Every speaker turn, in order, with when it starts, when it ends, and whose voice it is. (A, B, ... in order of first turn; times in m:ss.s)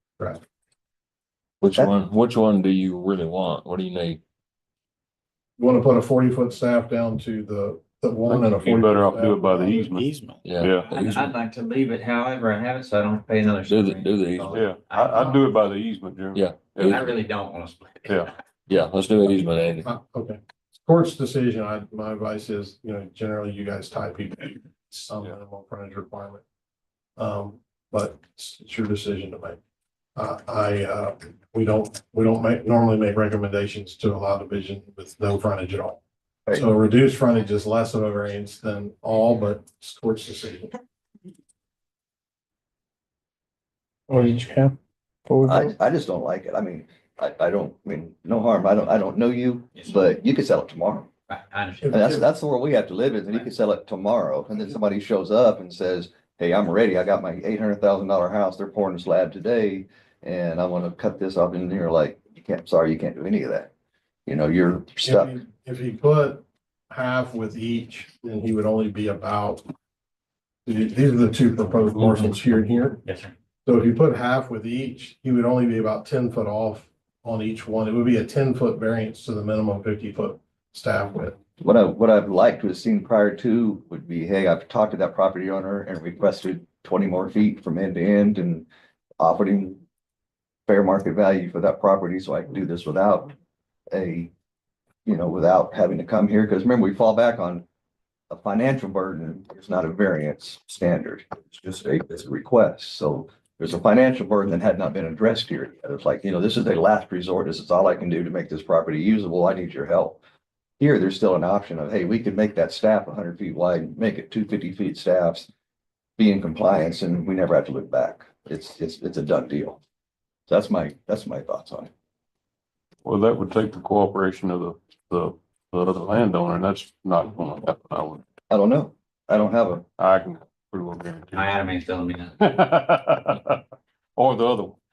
0:01.6-0:04.2 A
0:05.6-0:09.9 B
0:08.5-0:10.1 C
0:09.9-0:10.4 D
0:10.4-0:11.4 A
0:10.6-0:11.0 C
0:10.8-0:15.4 E
0:13.7-0:14.6 A
0:14.5-0:17.1 C
0:16.4-0:16.7 D
0:16.4-0:17.0 A
0:16.8-0:18.4 E
0:18.1-0:18.3 C
0:18.7-0:19.8 A
0:19.8-0:26.4 B
0:27.2-0:29.6 B
0:30.2-0:40.7 B
0:44.1-0:45.7 D
0:45.4-0:51.1 F
0:49.8-0:50.1 E
0:51.3-0:51.9 E
0:51.8-0:52.3 B
0:51.9-1:03.7 F
1:04.3-1:05.4 F
1:05.0-1:09.6 B
1:10.7-1:13.0 B
1:11.9-1:12.5 E
1:13.0-1:13.3 E
1:13.7-1:21.4 B
1:21.6-1:28.7 F
1:29.2-1:29.8 F
1:30.7-1:33.3 F
1:33.9-1:34.3 F
1:35.1-1:37.6 F
1:38.3-1:50.2 F
1:50.8-1:55.5 F
1:56.2-1:59.8 F
2:00.5-2:01.9 F
2:03.0-2:08.2 C
2:08.5-2:09.8 F
2:10.0-2:11.6 C
2:11.3-2:12.4 E
2:12.4-2:13.6 C
2:14.2-2:14.8 C